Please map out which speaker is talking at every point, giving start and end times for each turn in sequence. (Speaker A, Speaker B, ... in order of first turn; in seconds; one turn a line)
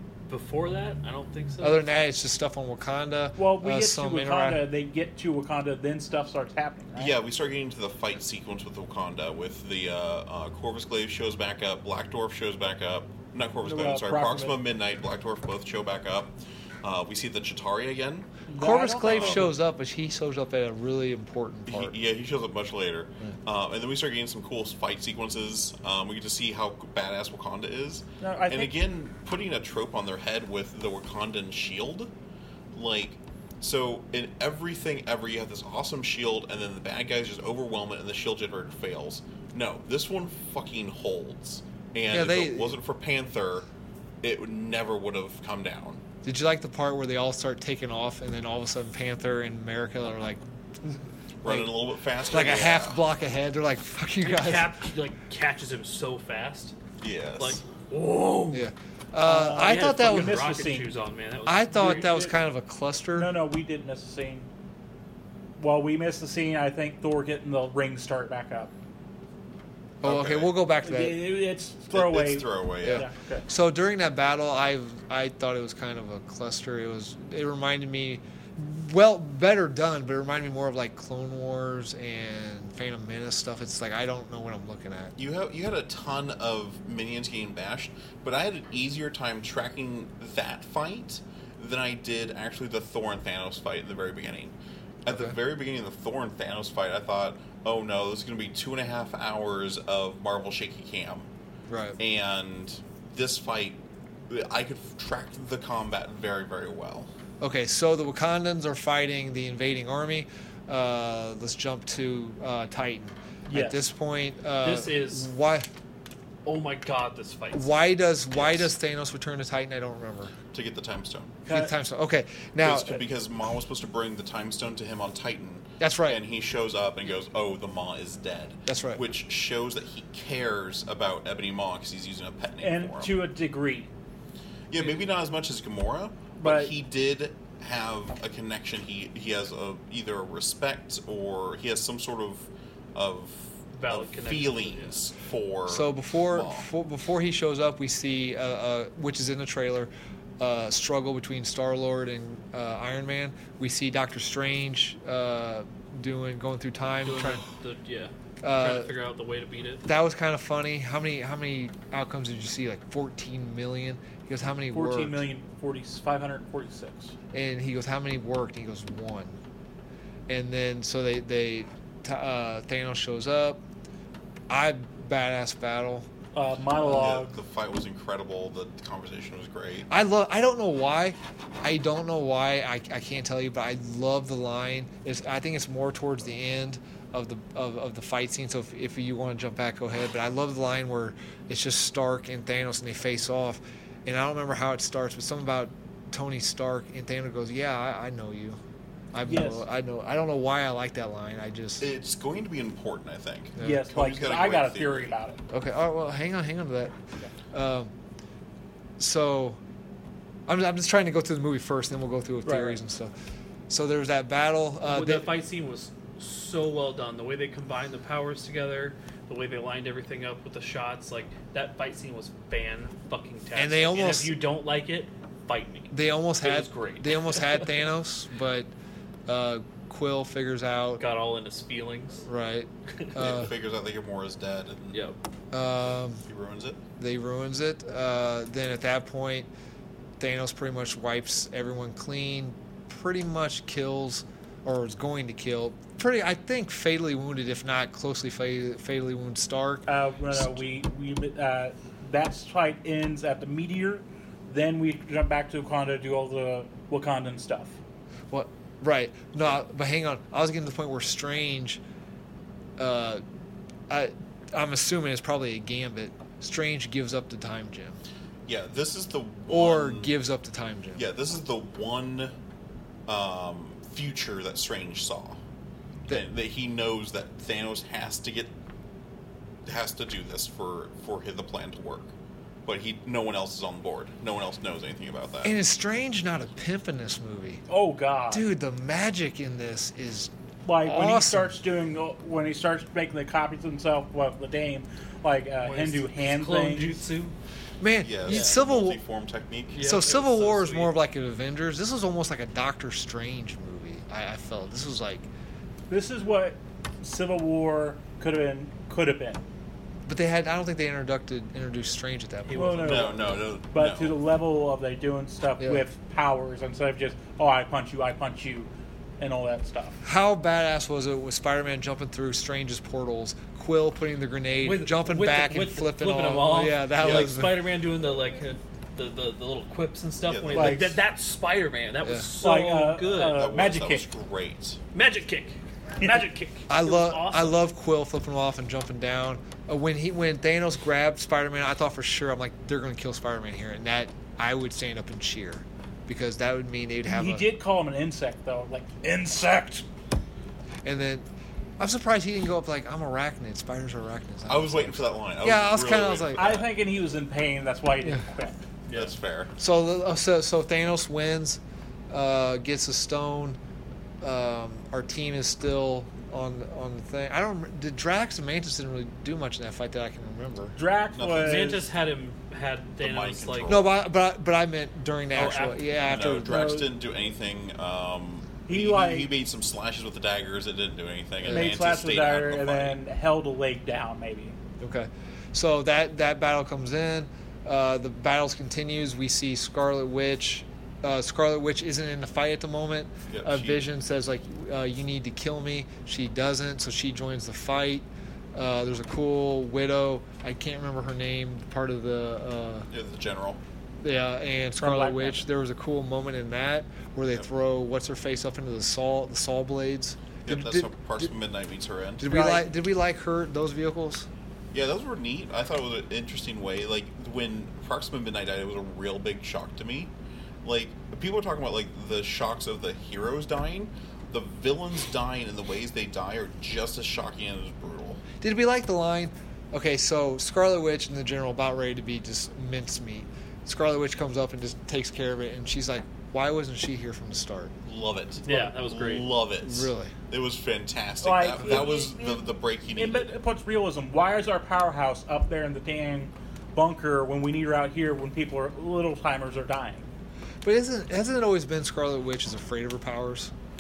Speaker A: 0.3-1.8
Speaker B: 1.6-4.7
Speaker C: 3.4-7.2
Speaker D: 7.0-18.3
Speaker C: 13.7-14.6
Speaker C: 18.5-19.5
Speaker B: 18.6-21.9
Speaker D: 19.0-19.5
Speaker D: 21.7-32.1
Speaker C: 28.2-28.8
Speaker D: 32.7-43.7
Speaker B: 42.1-42.8
Speaker D: 44.2-46.0
Speaker B: 46.2-51.7
Speaker D: 51.4-53.0
Speaker B: 52.3-54.7
Speaker A: 54.2-56.8
Speaker D: 57.0-57.6
Speaker A: 57.4-58.7
Speaker B: 58.5-60.5
Speaker C: 59.3-60.9
Speaker A: 59.5-62.1
Speaker B: 61.5-63.3
Speaker C: 61.8-62.3
Speaker C: 63.1-64.5
Speaker C: 65.6-68.7
Speaker B: 70.0-71.2
Speaker D: 70.0-70.5
Speaker C: 70.8-73.5
Speaker D: 71.9-73.1
Speaker B: 72.8-85.1
Speaker D: 85.2-101.3
Speaker B: 95.1-95.3
Speaker B: 101.7-102.0
Speaker D: 102.0-103.8
Speaker D: 104.3-107.1
Speaker B: 107.4-115.7
Speaker C: 113.5-113.8
Speaker A: 114.6-115.3
Speaker A: 116.5-117.7
Speaker B: 117.5-120.3
Speaker D: 118.3-118.7
Speaker D: 120.5-121.4
Speaker C: 121.5-121.7
Speaker B: 121.5-123.0
Speaker D: 122.6-133.2
Speaker B: 125.8-126.2
Speaker B: 128.7-129.0
Speaker C: 132.6-133.9
Speaker D: 134.7-146.7
Speaker C: 136.4-136.7
Speaker A: 143.8-145.0
Speaker B: 145.7-157.4
Speaker A: 157.0-159.8
Speaker B: 158.4-158.9
Speaker B: 159.8-165.2
Speaker C: 164.7-167.1
Speaker B: 167.3-169.4
Speaker B: 170.3-173.6
Speaker B: 174.5-176.1
Speaker C: 176.3-177.4
Speaker D: 176.8-179.9
Speaker B: 179.9-198.6
Speaker B: 199.1-201.8
Speaker C: 199.3-199.6
Speaker D: 201.8-205.1
Speaker B: 203.6-203.8
Speaker C: 203.6-205.4
Speaker B: 205.5-206.9
Speaker B: 207.5-207.9
Speaker B: 209.0-209.6
Speaker B: 210.5-213.1
Speaker C: 212.4-212.8
Speaker B: 213.7-215.3
Speaker A: 214.8-227.8
Speaker B: 223.6-224.4
Speaker B: 225.9-228.7
Speaker B: 229.3-231.0
Speaker A: 231.0-232.3
Speaker B: 232.3-233.5
Speaker D: 233.2-235.0
Speaker A: 234.9-235.2
Speaker B: 235.5-236.2
Speaker D: 236.2-236.8
Speaker B: 237.0-239.5
Speaker B: 240.2-250.6
Speaker C: 249.9-257.8
Speaker B: 258.3-261.8
Speaker B: 262.8-263.2
Speaker B: 263.9-268.0
Speaker D: 268.5-270.1
Speaker B: 269.5-271.0
Speaker D: 270.9-272.3
Speaker D: 273.1-275.4
Speaker D: 276.1-278.5
Speaker D: 279.7-282.1
Speaker D: 282.7-285.6
Speaker B: 285.4-287.6
Speaker C: 287.7-288.4
Speaker B: 288.3-291.6
Speaker C: 290.6-297.0
Speaker A: 295.6-297.4
Speaker B: 297.8-299.0
Speaker D: 298.0-299.8
Speaker A: 298.3-298.6
Speaker A: 299.7-300.9
Speaker B: 299.8-305.3
Speaker C: 305.9-309.4
Speaker B: 310.1-312.9
Speaker A: 312.5-313.4
Speaker C: 312.5-320.0
Speaker D: 312.8-314.2
Speaker B: 320.0-327.6
Speaker A: 324.6-333.4
Speaker D: 327.0-327.3
Speaker D: 330.3-330.9
Speaker C: 330.5-331.0
Speaker C: 332.4-334.1
Speaker D: 333.3-334.8
Speaker A: 334.9-337.6
Speaker B: 336.7-347.4
Speaker C: 347.1-349.9
Speaker B: 350.8-351.2
Speaker B: 351.8-356.5
Speaker D: 354.5-356.7
Speaker C: 356.4-358.6
Speaker A: 358.9-359.1
Speaker D: 358.9-359.5
Speaker B: 359.6-363.6
Speaker B: 364.2-370.8
Speaker C: 370.8-371.9
Speaker D: 371.1-371.8
Speaker A: 371.4-373.8
Speaker D: 373.0-373.9
Speaker B: 373.7-376.8
Speaker A: 375.4-375.9
Speaker D: 376.0-383.0
Speaker C: 376.4-376.9
Speaker C: 378.7-379.3
Speaker B: 381.4-381.8
Speaker C: 381.5-384.6
Speaker B: 384.8-402.9
Speaker D: 393.3-393.9
Speaker D: 402.9-403.6
Speaker B: 404.0-411.2
Speaker C: 404.8-405.4
Speaker D: 410.4-412.5
Speaker B: 412.2-414.3
Speaker C: 412.3-412.6
Speaker D: 414.7-420.1
Speaker D: 420.6-428.2
Speaker B: 428.4-437.7
Speaker D: 437.9-443.3
Speaker A: 438.4-439.3
Speaker B: 439.6-440.1
Speaker C: 441.2-450.1
Speaker B: 450.6-453.5